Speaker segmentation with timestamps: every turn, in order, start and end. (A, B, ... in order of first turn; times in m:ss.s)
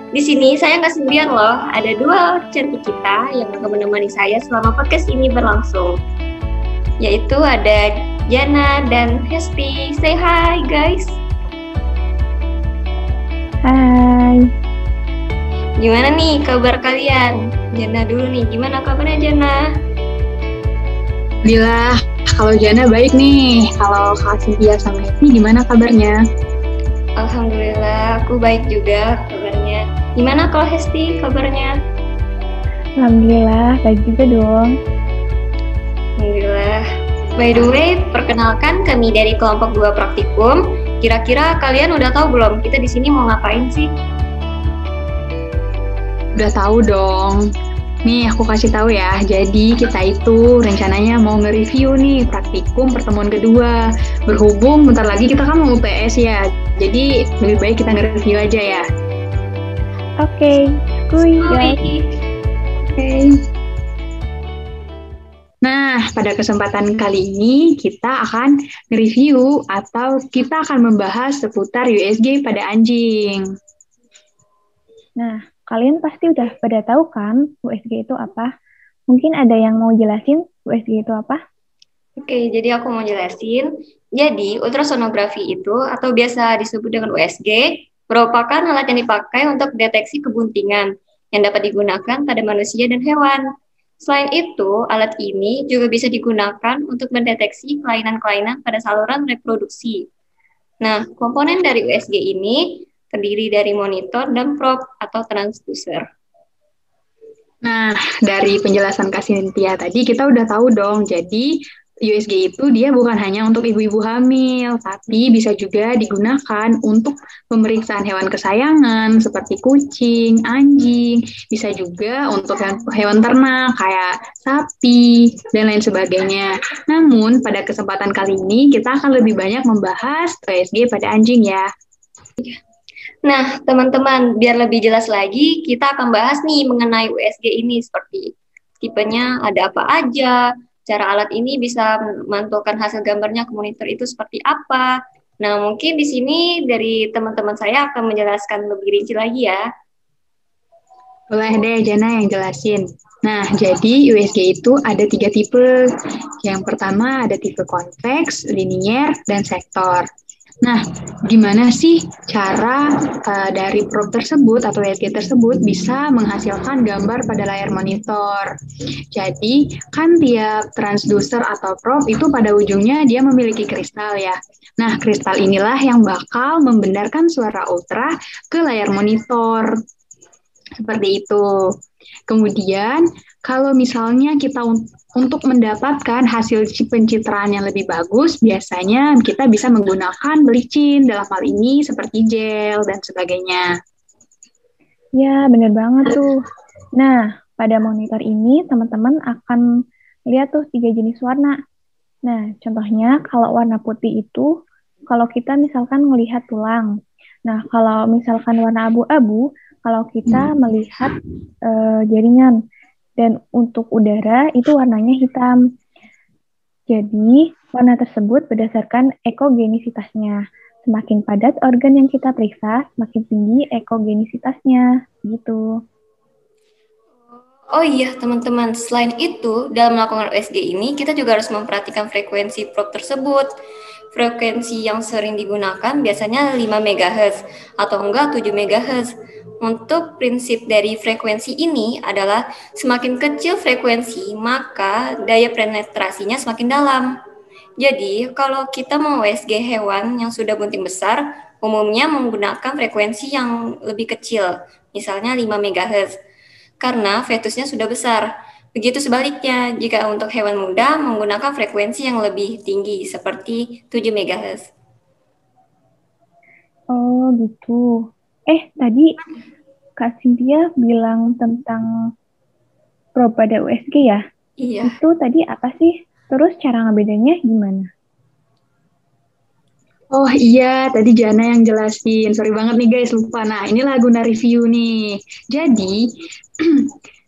0:00.1-0:06.0 A
0:07.0-0:11.1 A
0:13.7-0:14.4 B
0:15.8-0:19.6 A
0:21.4-0:26.2 C
0:27.2-0:31.7 A
0:33.0-0:34.8 B
0:36.2-0:36.8 A
0:37.4-0:43.9 A
0:46.4-0:47.4 C
0:48.0-0:58.8 C
1:00.2-1:01.8 B
1:01.4-1:02.1 A
1:05.6-1:13.4 C
1:15.2-1:18.5 B
1:19.1-1:21.4 B
1:22.2-1:33.4 A
1:34.0-1:40.0 A
1:40.8-1:46.0 A
1:47.6-1:51.5 C
1:52.0-2:11.7 C
2:13.2-2:18.3 A
2:18.8-2:24.9 A
2:25.4-2:29.6 A
2:31.3-2:40.1 C
2:40.6-2:48.5 C
2:49.1-2:59.7 C
3:00.8-3:01.4 C
3:02.3-3:13.7 C
3:15.2-3:16.4 B
3:17.0-3:19.6 B
3:20.3-3:21.6 B
3:22.3-3:24.5 B
3:25.1-3:26.9 B
3:27.5-3:31.2 B
3:31.7-3:32.5 B
3:33.2-3:35.5 B
3:36.9-3:45.6 B
3:47.7-3:53.5 A
3:54.1-4:07.1 A
4:07.8-4:16.1 A
4:16.8-4:24.7 A
4:26.9-4:27.8 B
4:28.5-4:29.1 B
4:30.0-4:31.8 B
4:33.2-4:34.2 B
4:34.6-4:35.0 A
4:34.8-4:37.9 B
4:40.1-4:46.0 C
4:46.6-4:46.9 C